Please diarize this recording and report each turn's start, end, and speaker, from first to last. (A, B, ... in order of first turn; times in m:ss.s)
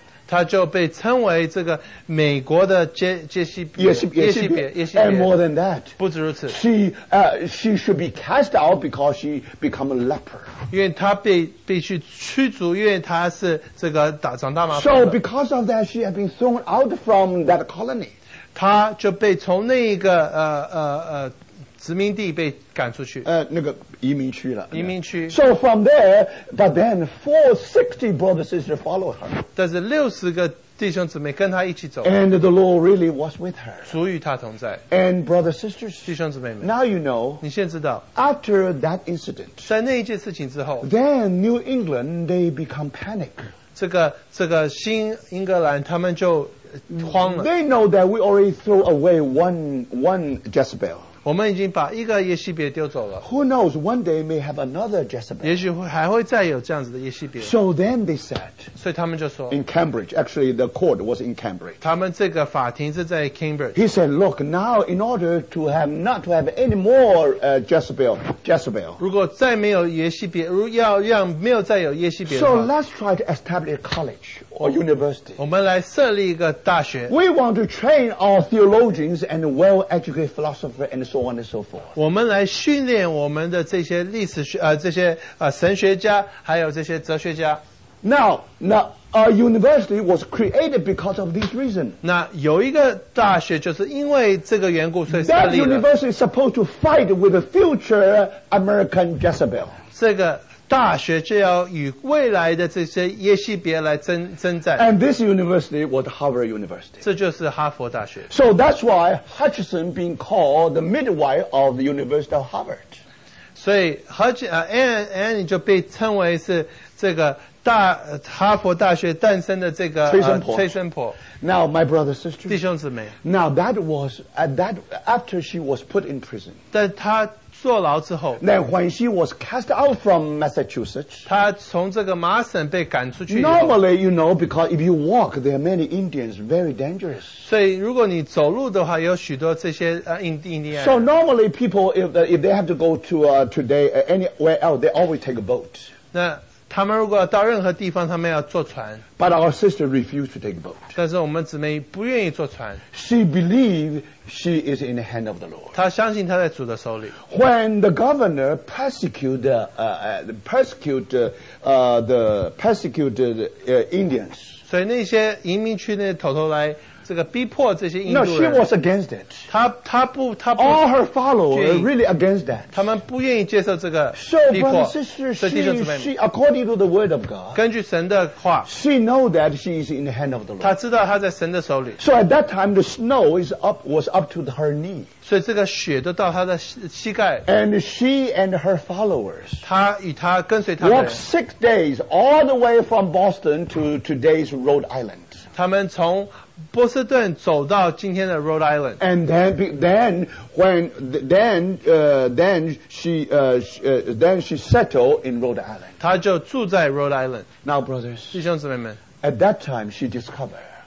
0:00.3-0:05.3 A
0:03.8-0:06.0 B
0:06.0-0:06.6 A
0:06.5-0:10.5 B
0:10.7-0:15.2 A
0:14.7-0:18.1 B
0:18.5-0:23.2 A
0:23.2-0:29.4 B
0:24.7-0:25.4 A
0:29.6-0:32.1 A
0:32.0-0:33.9 B
0:33.8-0:34.8 A
0:34.9-0:37.4 B
0:36.0-0:36.7 A
0:37.4-0:38.0 A
0:38.1-0:39.7 B
0:39.6-0:40.9 A
0:40.8-0:43.4 B
0:43.8-0:47.5 A
0:47.0-0:51.0 B
0:51.2-0:53.2 A
0:53.2-0:55.6 B
0:55.4-0:57.5 A
0:57.4-0:58.7 B
0:58.8-0:59.6 A
0:59.5-1:01.8 B
1:01.8-1:03.8 A
1:03.7-1:09.0 B
1:09.0-1:12.7 A
1:12.2-1:15.4 B
1:15.4-1:17.1 A
1:17.1-1:21.9 B
1:21.9-1:27.6 A
1:28.0-1:32.0 B
1:32.0-1:35.8 A
1:35.1-1:39.8 B
1:39.9-1:44.8 A
1:44.8-1:47.0 B
1:47.0-1:48.3 A
1:48.3-1:53.0 B
1:53.6-2:01.2 A
2:00.0-2:00.7 B
2:01.4-2:02.6 B
2:02.5-2:03.1 A
2:03.2-2:06.6 B
2:06.7-2:08.4 A
2:08.4-2:11.2 B
2:11.2-2:13.8 A
2:13.3-2:17.4 B
2:17.4-2:21.0 A
2:20.7-2:25.9 B
2:26.1-2:29.0 A
2:29.2-2:30.9 B
2:30.9-2:32.8 A
2:32.9-2:35.7 B
2:35.7-2:37.2 A
2:37.3-2:44.6 B
2:44.7-2:48.6 A
2:48.0-2:49.5 B
2:49.5-2:50.8 A
2:50.6-2:52.8 B
2:51.5-2:51.9 A
2:52.7-2:56.1 A
2:54.1-2:57.6 B
2:57.5-2:58.7 A
2:58.6-3:00.8 B
3:00.6-3:02.0 A
3:02.0-3:05.1 B
3:05.2-3:07.4 A
3:07.4-3:09.6 B
3:09.6-3:11.2 A
3:10.8-3:15.4 B
3:15.5-3:19.0 A
3:19.0-3:26.0 B
3:26.0-3:27.5 A
3:27.6-3:28.4 B
3:28.3-3:29.0 A
3:29.2-3:30.6 B